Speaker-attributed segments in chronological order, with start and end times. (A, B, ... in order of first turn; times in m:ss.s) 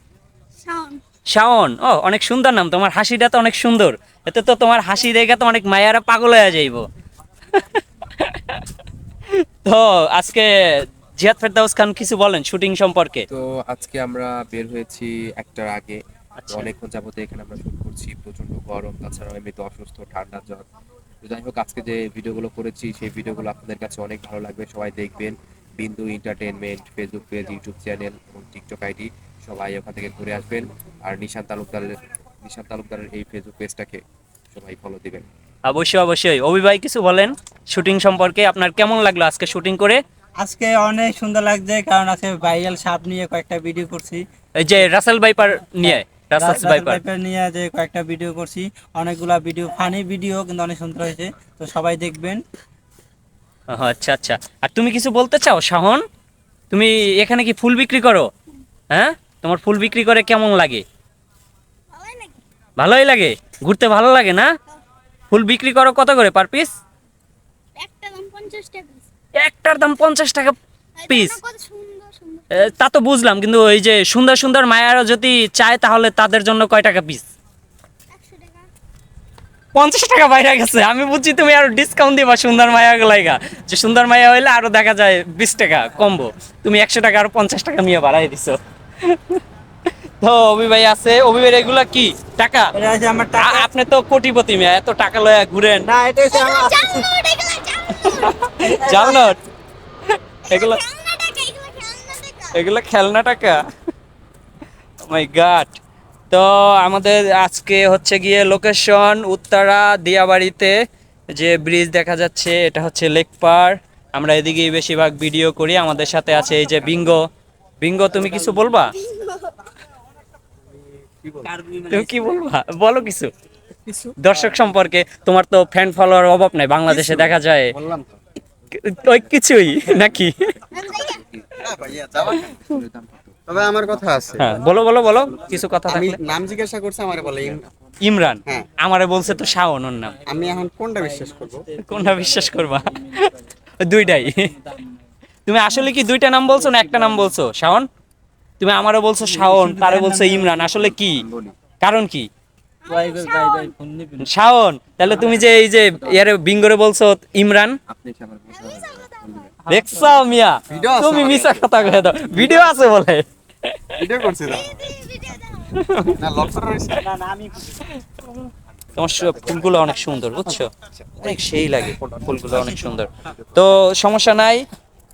0:00.6-0:01.0 A
0:01.3-0:06.8 B
0:07.5-0:08.6 B
0:09.6-0:13.3 B
0:13.3-0:16.0 C
0:16.4-0:16.7 B
0:16.5-0:20.6 C
0:21.2-0:35.2 C
0:35.6-0:40.0 B
0:40.4-0:44.2 D
0:44.6-0:47.0 B
0:45.8-0:52.4 D
0:53.7-0:56.0 B
0:56.7-0:58.3 B
0:58.9-1:00.8 B
1:01.9-1:02.4 A
1:02.8-1:04.5 B
1:05.3-1:06.7 B
1:07.8-1:09.1 A
1:09.4-1:10.5 B
1:11.0-1:12.7 A
1:11.1-1:11.4 B
1:12.5-1:17.3 B
1:18.1-1:18.7 A
1:19.7-1:29.4 B
1:30.2-1:32.7 B
1:32.8-1:33.7 D
1:33.4-1:35.9 B
1:35.8-1:37.1 D
1:36.3-1:38.4 A
1:38.0-1:39.4 B
1:38.6-1:39.4 D
1:40.5-1:40.8 B
1:40.5-1:42.5 A
1:42.5-1:43.6 B
1:45.1-1:45.8 B
1:46.3-1:50.7 B
1:51.3-1:57.3 B
1:57.8-1:59.0 B
1:59.0-1:59.4 A
2:00.7-2:01.5 E
2:01.4-2:02.4 D
2:01.9-2:03.3 B
2:04.2-2:07.7 B
2:06.9-2:08.1 E
2:08.7-2:10.5 B
2:10.7-2:14.6 C
2:10.7-2:11.2 A
2:11.6-2:12.5 E
2:13.5-2:14.6 E
2:14.4-2:16.2 B
2:15.8-2:17.7 E
2:18.0-2:20.2 B
2:18.4-2:18.7 E
2:20.2-2:25.1 D
2:20.3-2:21.7 E
2:21.8-2:23.2 B
2:23.8-2:24.5 B
2:25.4-2:27.9 B
2:26.5-2:27.4 D
2:28.6-2:31.2 B
2:29.2-2:30.7 D
2:30.7-2:31.6 C
2:31.8-2:32.3 B
2:32.8-2:33.7 A
2:32.9-2:34.3 D
2:34.2-2:37.8 B
2:35.0-2:36.3 C
2:37.9-2:39.5 C
2:38.5-2:39.5 A
2:39.6-2:40.2 D
2:39.7-2:44.0 B
2:40.7-2:42.7 E
2:43.9-2:45.0 E
2:44.5-2:45.8 A
2:45.7-2:46.2 B
2:46.1-2:47.1 E
2:46.9-2:47.8 D
2:49.0-2:54.6 B
2:49.2-2:49.6 C
2:52.0-2:52.6 C